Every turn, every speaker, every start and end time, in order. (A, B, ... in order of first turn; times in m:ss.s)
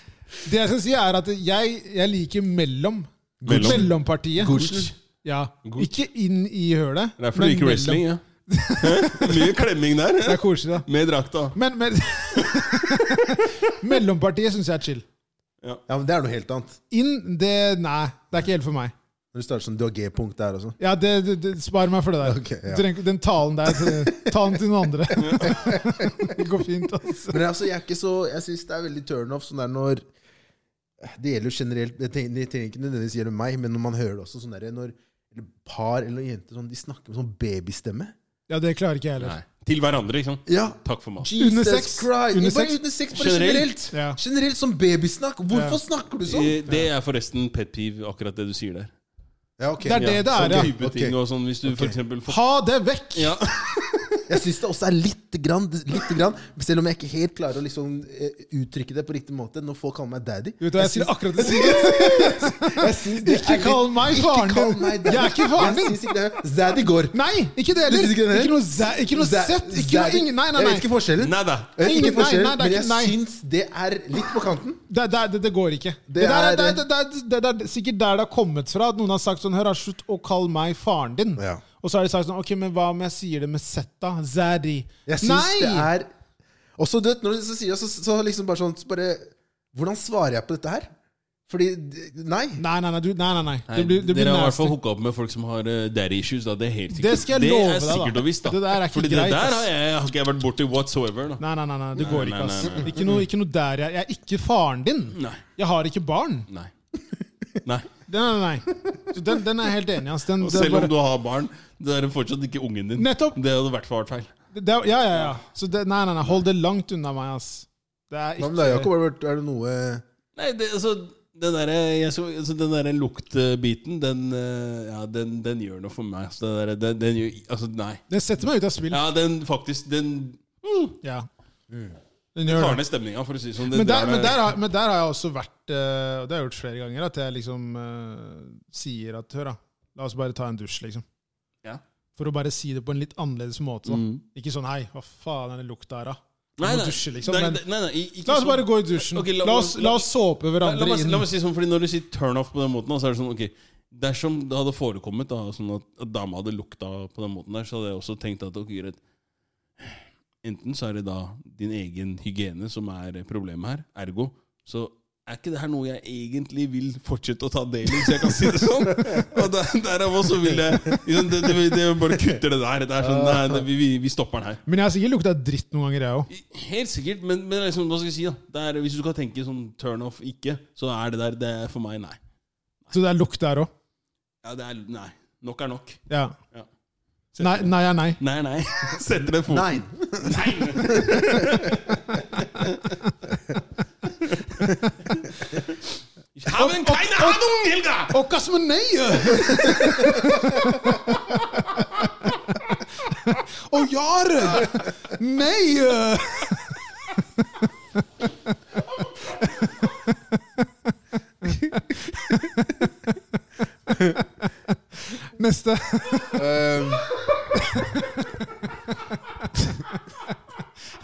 0:00.4-0:09.6 A
0:03.4-0:04.9 B
0:03.4-0:03.9 C
0:04.4-0:04.9 C
0:07.2-0:08.2 C
0:08.8-0:11.6 C
0:10.2-0:10.9 A
0:11.5-0:15.0 A
0:12.3-0:13.7 C
0:15.9-0:16.8 B
0:16.9-0:18.9 A
0:19.3-0:20.8 B
0:20.8-0:27.4 A
0:22.2-0:22.9 B
0:23.6-0:24.6 B
0:25.2-0:25.6 C
0:25.4-0:26.4 B
0:27.3-0:30.0 B
0:31.0-0:38.1 B
0:38.5-0:39.3 A
0:39.2-0:41.3 C
0:40.4-0:46.8 B
0:41.4-0:42.8 A
0:43.1-0:43.8 C
0:43.9-0:44.2 A
0:45.5-0:45.8 A
0:46.3-0:48.9 C
0:49.6-0:52.0 B
0:49.8-0:50.7 A
0:50.0-0:52.4 C
0:52.3-0:53.4 A
0:53.1-0:53.5 C
0:54.3-1:07.2 B
1:00.6-1:06.1 A
1:07.1-1:10.9 A
1:07.8-1:14.8 B
1:11.2-1:11.7 C
1:11.8-1:13.1 A
1:14.9-1:25.9 A
1:16.1-1:16.8 B
1:21.4-1:21.6 B
1:25.1-1:26.1 B
1:26.8-1:30.9 B
1:31.5-1:32.6 B
1:32.6-1:34.7 A
1:33.7-1:41.4 C
1:36.9-1:39.7 A
1:41.4-1:46.5 A
1:42.0-1:43.2 C
1:45.1-1:45.4 C
1:47.6-1:47.9 C
1:48.1-1:50.9 A
1:50.4-1:54.3 C
1:53.0-1:53.4 A
1:54.5-1:58.9 A
1:58.4-2:00.0 B
2:00.4-2:08.0 C
2:08.1-2:09.0 A
2:08.9-2:11.0 C
2:11.0-2:11.3 A
2:11.7-2:11.9 B
2:12.3-2:12.8 A
2:12.5-2:14.5 C
2:13.7-2:21.0 A
2:22.2-2:27.6 A
2:23.8-2:24.2 C
2:26.6-2:30.1 C
2:28.2-2:31.2 A
2:30.6-2:39.0 C
2:39.8-2:54.6 C
2:48.9-2:49.2 B
2:53.0-2:53.6 B
2:54.6-2:56.3 A
2:56.3-3:02.2 C
3:02.9-3:03.7 A
3:04.4-3:06.0 C
3:06.1-3:06.4 A
3:07.4-3:08.2 A
3:07.4-3:13.0 C
3:09.5-3:11.8 B
3:14.2-3:15.8 C
3:16.3-3:18.2 C
3:16.5-3:17.4 A
3:18.1-3:21.2 A
3:22.5-3:26.8 A
3:31.4-3:32.9 A
3:33.9-3:34.2 B
3:34.0-3:36.5 A
3:36.3-3:37.1 B
3:37.5-3:38.2 A
3:39.3-3:39.8 A